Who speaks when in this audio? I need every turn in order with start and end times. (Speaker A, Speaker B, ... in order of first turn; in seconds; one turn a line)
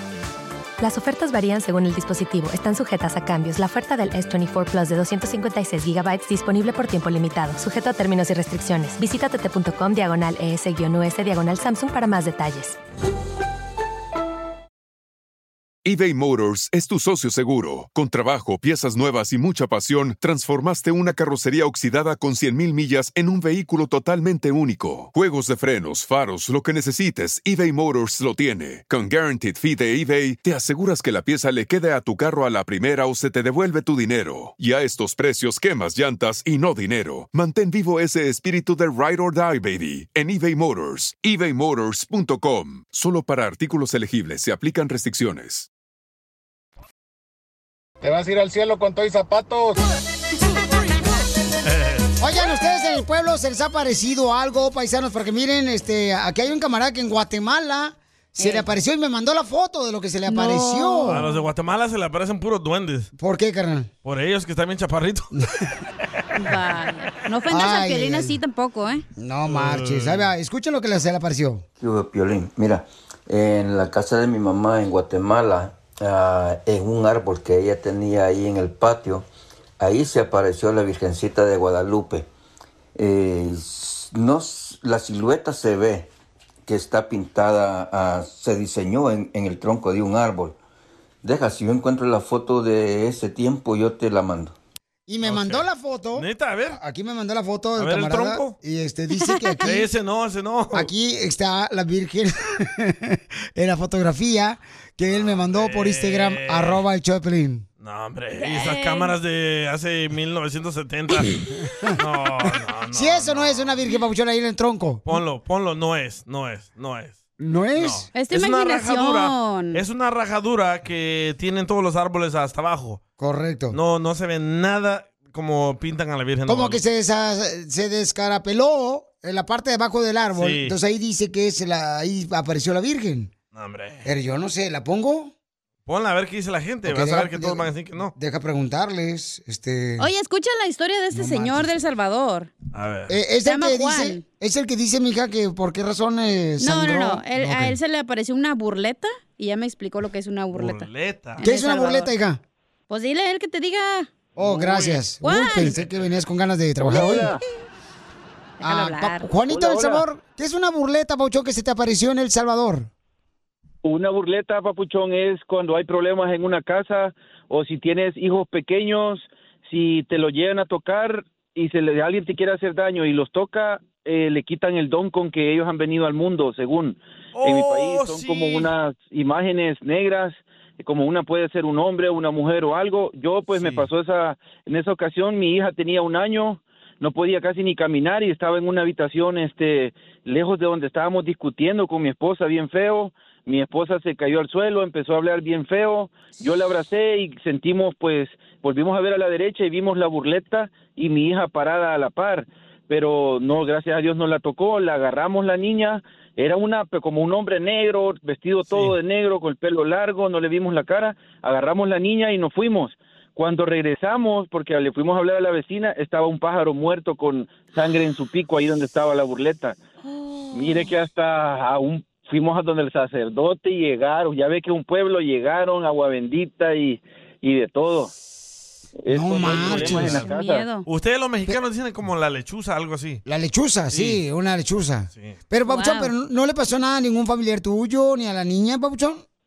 Speaker A: 0.8-12.8
Speaker B: 15.8-45.7
Speaker C: 51.6-52.0
Speaker D: 52.2-61.3
Speaker E: 58.4-58.7
Speaker E: 60.3-61.4
Speaker C: 61.0-63.1
Speaker D: 63.2-63.9
Speaker C: 64.0-65.3
Speaker E: 66.3-69.0
Speaker D: 67.5-68.4
Speaker D: 69.2-71.6
Speaker C: 69.5-70.3
Speaker F: 71.8-79.2
Speaker F: 79.8-82.3
Speaker F: 83.0-86.1
Speaker F: 86.6-90.5
Speaker F: 91.2-94.5
Speaker D: 95.1-99.9
Speaker C: 95.2-96.8
Speaker C: 97.8-98.6
Speaker C: 99.6-100.9
Speaker D: 100.7-107.6
Speaker C: 105.1-106.8
Speaker C: 107.8-111.4
Speaker E: 108.4-109.1
Speaker D: 111.7-112.0
Speaker C: 112.0-113.8
Speaker D: 112.9-115.0
Speaker C: 115.0-117.2
Speaker D: 117.4-118.1
Speaker C: 117.7-123.0
Speaker E: 118.1-119.8
Speaker D: 123.2-123.8
Speaker C: 123.7-126.8
Speaker D: 126.5-133.3
Speaker C: 130.3-130.8
Speaker C: 133.5-134.1
Speaker D: 134.0-135.3
Speaker C: 135.8-138.1
Speaker D: 136.8-140.1
Speaker E: 140.0-142.5
Speaker D: 141.1-141.8
Speaker C: 142.7-143.1
Speaker D: 143.1-147.8
Speaker E: 143.4-144.2
Speaker E: 146.6-150.9
Speaker C: 150.5-151.4
Speaker E: 151.4-152.1
Speaker D: 151.4-152.4
Speaker E: 152.9-154.1
Speaker D: 154.3-157.3
Speaker C: 154.4-155.0
Speaker E: 155.2-155.7
Speaker C: 155.6-156.1
Speaker C: 156.9-157.3
Speaker E: 158.6-159.3
Speaker D: 158.6-162.9
Speaker G: 163.8-219.8
Speaker C: 177.3-178.7
Speaker C: 183.5-183.8
Speaker C: 208.7-208.9
Speaker G: 220.5-228.1
Speaker G: 229.0-230.7
Speaker D: 229.1-230.3
Speaker E: 229.5-230.8
Speaker C: 229.5-230.0
Speaker C: 230.8-233.2
Speaker D: 233.2-239.2
Speaker C: 233.9-234.2
Speaker E: 235.7-236.1